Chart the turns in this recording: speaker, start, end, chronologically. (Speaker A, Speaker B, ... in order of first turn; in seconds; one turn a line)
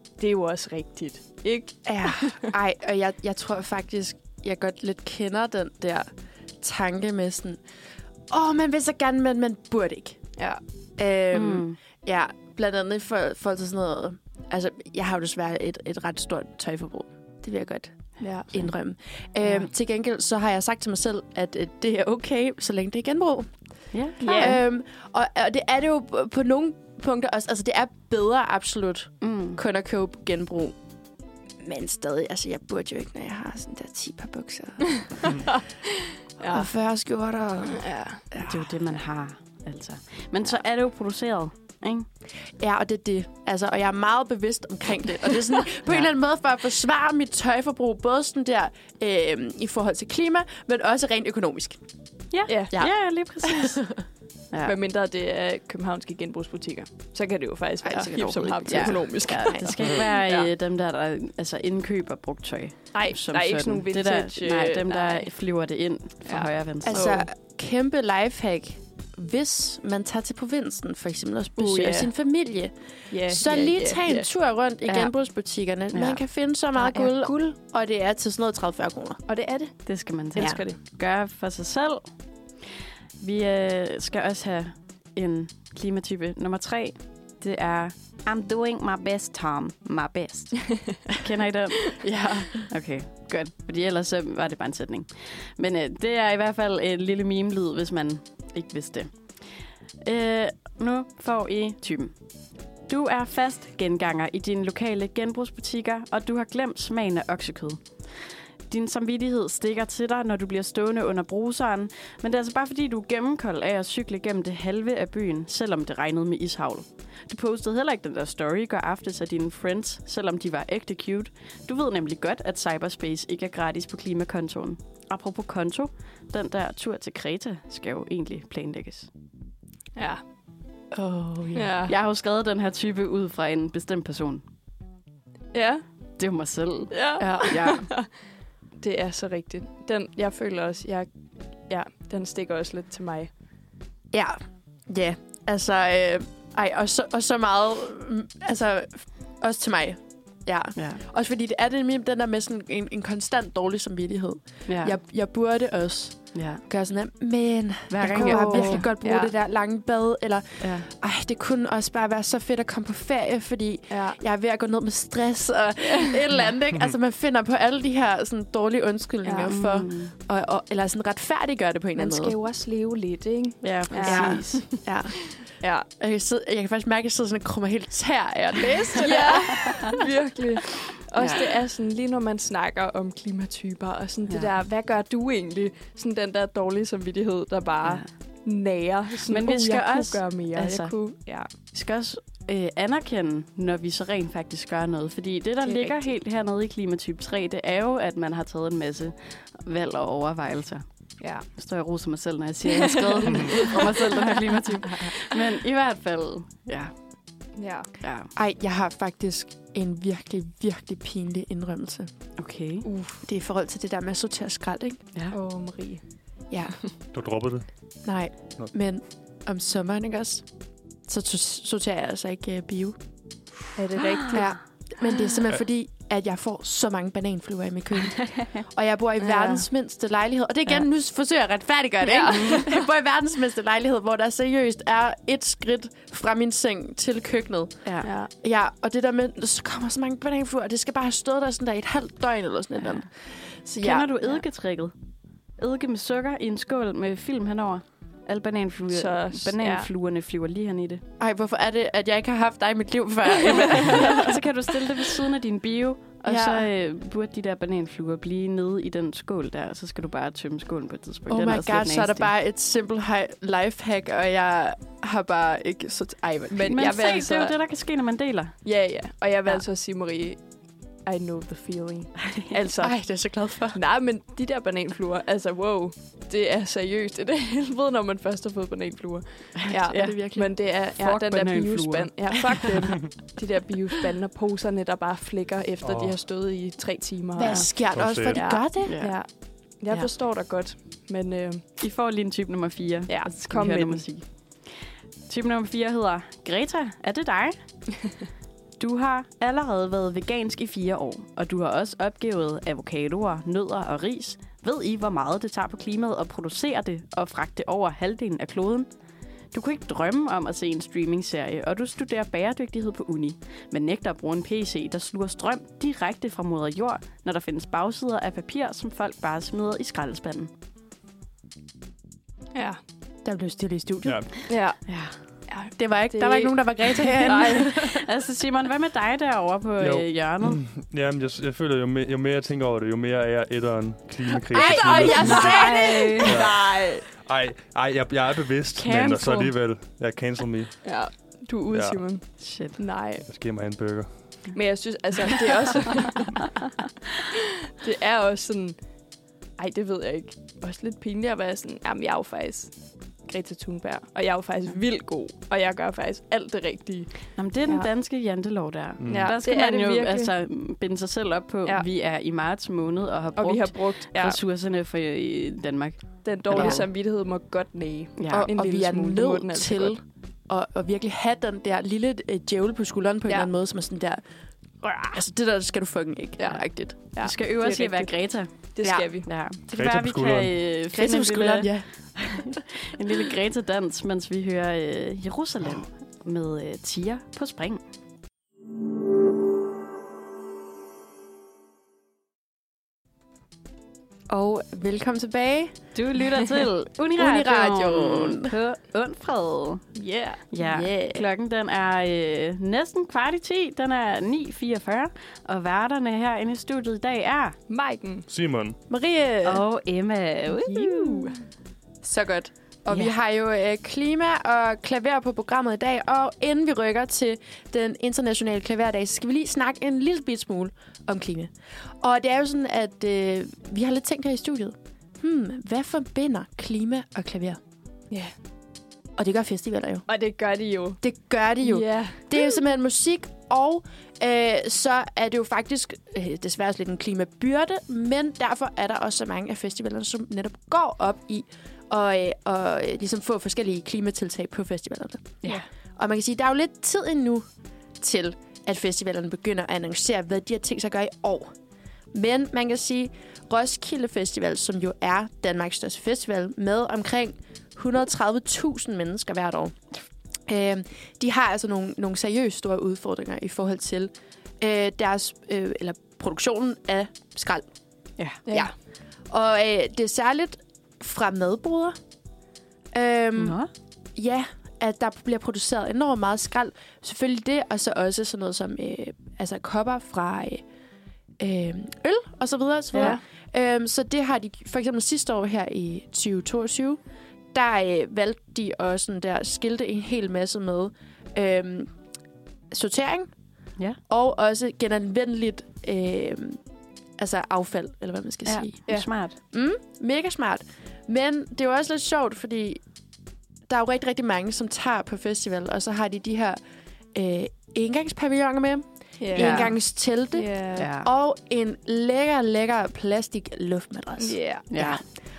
Speaker A: 0.2-2.5
Speaker B: 1.9-6.1
Speaker B: 6.6-7.6
Speaker B: 8.3-10.2
Speaker B: 11.0-23.5
Speaker C: 11.3-11.8
Speaker A: 18.2-18.5
Speaker C: 23.9-24.6
Speaker A: 24.2-24.6
Speaker B: 24.2-30.8
Speaker C: 29.2-29.6
Speaker B: 31.6-35.4
Speaker A: 35.3-36.7
Speaker B: 36.5-38.8
Speaker A: 37.7-38.2
Speaker C: 38.4-42.1
Speaker B: 42.6-51.8
Speaker C: 52.3-53.8
Speaker A: 52.5-52.8
Speaker B: 52.7-54.0
Speaker A: 54.6-60.5
Speaker B: 57.8-59.7
Speaker C: 58.6-67.1
Speaker A: 62.9-65.3
Speaker A: 66.2-67.3
Speaker B: 66.9-72.7
Speaker A: 71.6-72.1
Speaker A: 73.1-74.3
Speaker B: 73.2-79.2
Speaker C: 75.9-76.2
Speaker A: 76.8-77.5
Speaker A: 79.3-80.8
Speaker C: 79.9-82.1
Speaker C: 83.2-92.1
Speaker B: 92.0-92.7
Speaker C: 92.7-99.1
Speaker C: 100.0-102.1
Speaker C: 102.9-107.8
Speaker C: 108.7-129.1
Speaker A: 130.0-130.2
Speaker B: 130.9-131.9
Speaker A: 131.6-131.9
Speaker C: 131.9-134.4
Speaker A: 135.5-135.8
Speaker C: 136.2-137.9
Speaker A: 136.9-138.1
Speaker B: 137.2-137.7
Speaker A: 138.8-141.1
Speaker A: 141.7-143.3
Speaker B: 144.1-172.4
Speaker C: 154.7-155.0
Speaker C: 156.3-156.6
Speaker C: 157.9-158.9
Speaker A: 158.1-159.3
Speaker C: 160.6-160.9
Speaker A: 163.9-164.2
Speaker A: 169.2-169.5
Speaker C: 169.4-170.1
Speaker A: 172.0-174.7
Speaker C: 173.6-174.8
Speaker B: 174.0-175.3
Speaker A: 175.3-175.9
Speaker B: 176.0-180.0
Speaker A: 178.9-191.5
Speaker C: 189.3-191.0
Speaker C: 191.7-200.8
Speaker A: 195.6-196.1
Speaker A: 201.2-201.5
Speaker C: 201.5-206.9
Speaker A: 202.7-204.1
Speaker A: 207.6-207.9
Speaker C: 208.0-208.3
Speaker B: 208.3-212.1
Speaker C: 212.4-212.9
Speaker A: 212.8-213.2
Speaker B: 213.2-215.0
Speaker A: 215.3-216.0
Speaker B: 216.5-216.8
Speaker D: 217.1-217.7
Speaker B: 218.1-220.4
Speaker B: 221.1-223.0
Speaker A: 223.8-224.5
Speaker C: 224.1-224.4
Speaker B: 224.3-237.9
Speaker A: 229.2-229.7
Speaker A: 232.0-232.7
Speaker A: 238.0-238.3
Speaker B: 238.4-244.1
Speaker C: 243.8-244.9
Speaker C: 245.6-251.0
Speaker A: 248.9-249.9
Speaker B: 251.2-254.4
Speaker C: 253.7-262.3
Speaker B: 256.2-256.7
Speaker B: 261.3-266.7
Speaker A: 266.5-267.5
Speaker C: 266.5-268.6
Speaker A: 268.6-270.4
Speaker A: 271.1-272.9
Speaker B: 272.7-273.8
Speaker A: 273.7-289.3
Speaker C: 279.7-282.7
Speaker B: 279.9-280.6
Speaker D: 285.8-286.1
Speaker B: 287.4-289.0
Speaker D: 287.9-288.4
Speaker C: 288.8-289.2
Speaker A: 289.8-291.6
Speaker C: 291.8-294.3
Speaker A: 293.1-294.1
Speaker C: 295.3-297.6
Speaker C: 298.8-308.9
Speaker C: 309.5-320.5
Speaker B: 323.2-324.2
Speaker D: 324.1-324.3
Speaker A: 324.5-324.8
Speaker C: 324.9-325.1
Speaker A: 325.5-327.9
Speaker B: 325.8-328.0
Speaker C: 327.2-330.6
Speaker D: 329.8-340.8
Speaker A: 334.4-337.1
Speaker C: 334.6-336.4
Speaker C: 338.7-339.6
Speaker A: 340.8-342.2
Speaker D: 341.7-342.0
Speaker C: 342.4-342.8
Speaker A: 342.8-343.3
Speaker D: 343.3-344.1
Speaker A: 344.5-346.5
Speaker A: 347.8-348.8
Speaker A: 349.6-352.7
Speaker A: 353.3-357.1
Speaker C: 357.4-366.9
Speaker D: 359.0-359.3
Speaker A: 359.1-360.3
Speaker A: 363.4-364.4
Speaker A: 366.2-369.9
Speaker B: 366.6-366.8
Speaker C: 368.2-368.5
Speaker B: 368.3-374.2
Speaker B: 374.8-376.9
Speaker A: 376.4-379.3
Speaker C: 377.2-378.5
Speaker B: 378.8-379.1
Speaker C: 379.2-387.8
Speaker D: 379.7-380.6
Speaker B: 380.9-382.6
Speaker B: 394.3-395.7
Speaker C: 395.9-399.8
Speaker B: 397.2-398.6
Speaker A: 399.9-400.5
Speaker C: 400.5-407.6
Speaker B: 400.6-401.2
Speaker A: 407.7-408.3
Speaker D: 408.3-408.8
Speaker B: 408.9-409.6
Speaker C: 409.4-411.4
Speaker A: 410.5-411.4
Speaker B: 412.0-427.6
Speaker B: 429.2-430.1
Speaker A: 430.1-431.0
Speaker B: 431.0-447.5
Speaker A: 431.6-432.4
Speaker B: 448.0-451.5
Speaker B: 452.1-459.8
Speaker B: 460.5-467.6
Speaker A: 468.5-468.7
Speaker B: 468.5-468.7
Speaker B: 469.3-472.0
Speaker B: 472.9-473.6
Speaker C: 473.4-473.7
Speaker B: 474.1-480.6
Speaker B: 481.4-487.0
Speaker A: 483.0-483.2
Speaker B: 487.5-491.9
Speaker B: 492.7-493.3
Speaker B: 494.1-496.6
Speaker B: 497.2-498.8
Speaker C: 498.5-499.4
Speaker B: 499.5-502.8
Speaker B: 503.7-506.6
Speaker B: 507.1-515.0
Speaker A: 509.2-509.7
Speaker C: 509.4-509.7
Speaker A: 510.3-510.9
Speaker C: 510.8-511.1
Speaker A: 514.2-514.7
Speaker C: 514.7-515.0